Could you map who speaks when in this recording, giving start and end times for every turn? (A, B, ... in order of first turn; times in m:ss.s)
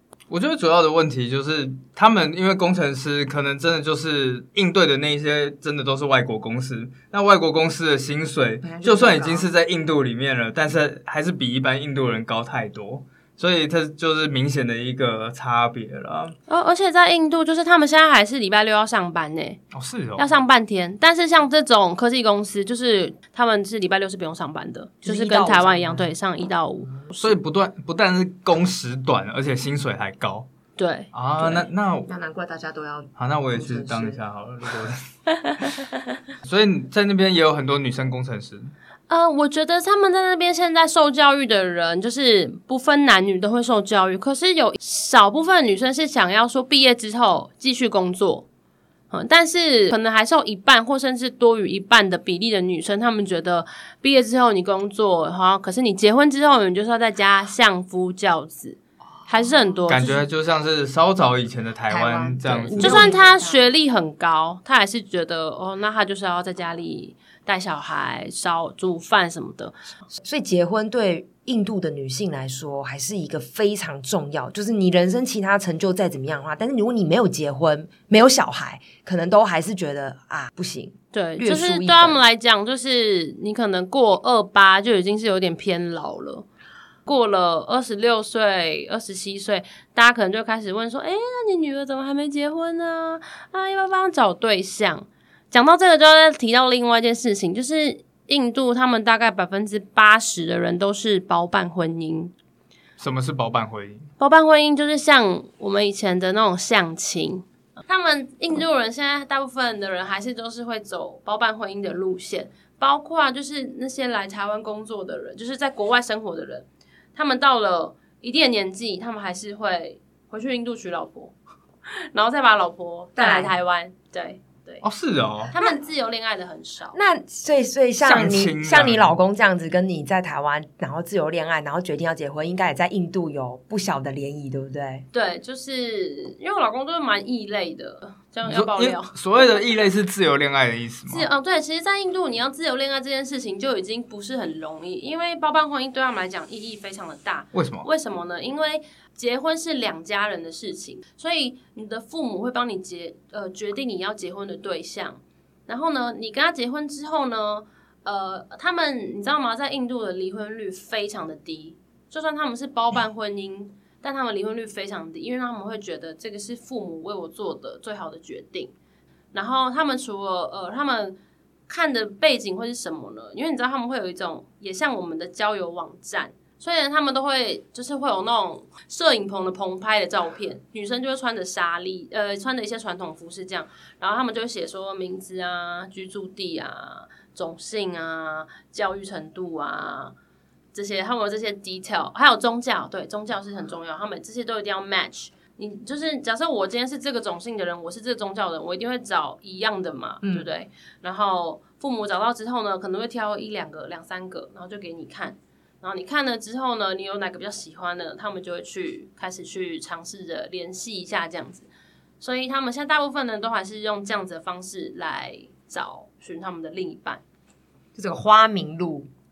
0:00.3-0:16.4 A
0:08.6-0:09.5 B
0:16.5-0:19.6 C
0:19.7-0:20.3 A
0:20.2-0:27.4 C
0:25.0-0:26.1 B
0:27.2-0:30.5 A
0:30.8-0:31.1 C
0:31.1-0:32.1 A
0:31.4-0:34.2 B
0:33.2-0:35.0 A
0:36.4-0:38.7 A
0:39.1-0:48.5 C
0:49.1-1:00.2 C
0:59.9-1:03.1 A
1:01.9-1:03.6 B
1:02.7-1:09.8 C
1:10.2-1:22.2 B
1:21.1-1:26.5 C
1:27.1-1:42.3 C
1:43.0-1:44.1 A
1:44.2-2:01.3 C
2:02.1-2:04.8 C
2:03.2-2:03.6 B
2:04.8-2:05.5 A
2:05.5-2:07.0 C
2:06.9-2:15.0 B
2:08.0-2:09.1 A
2:15.1-2:19.2 C
2:18.5-2:21.3 A
2:21.1-2:48.7 C
2:27.5-2:27.9 A
2:49.3-2:51.2 C
2:51.7-3:10.1 C
3:10.7-3:31.7 C
3:20.2-3:20.5 B
3:32.2-3:37.2 C
3:38.0-3:39.1 B